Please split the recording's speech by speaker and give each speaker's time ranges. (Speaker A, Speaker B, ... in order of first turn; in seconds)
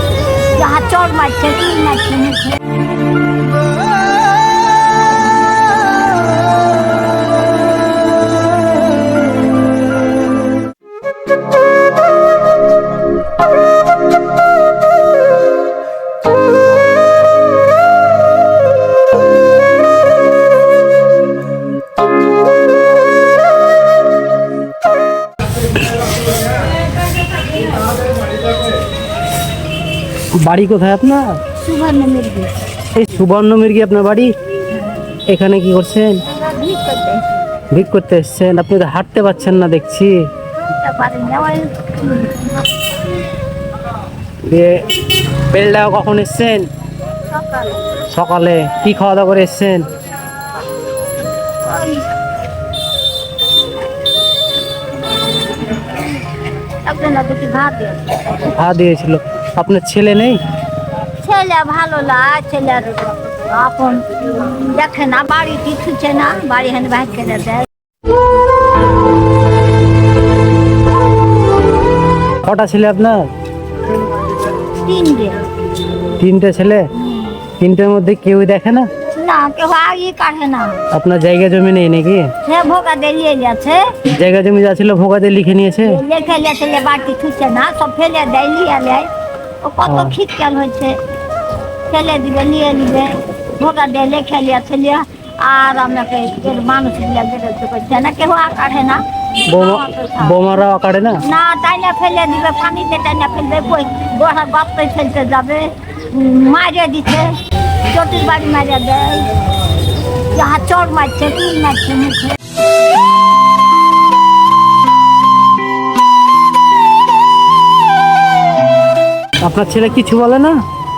Speaker A: 0.5-2.6, 31.6-32.5, 36.3-37.2, 40.6-42.7, 47.3-47.9, 51.6-52.1, 55.6-56.2, 56.8-58.5, 61.2-67.7, 74.8-75.4, 76.9-77.4, 79.1-80.8, 82.4-83.9, 85.8-89.1, 89.6-91.0, 91.9-100.4, 101.2-109.3, 110.3-112.4
Speaker B: 30.4-31.3, 33.0-34.3, 35.3-36.2, 37.7-40.2, 44.5-46.7, 48.1-49.9, 58.5-60.4, 72.4-73.2, 76.2-76.9, 77.6-78.9, 80.9-82.3, 84.1-86.0, 89.8-90.2, 99.5-101.2, 119.4-120.5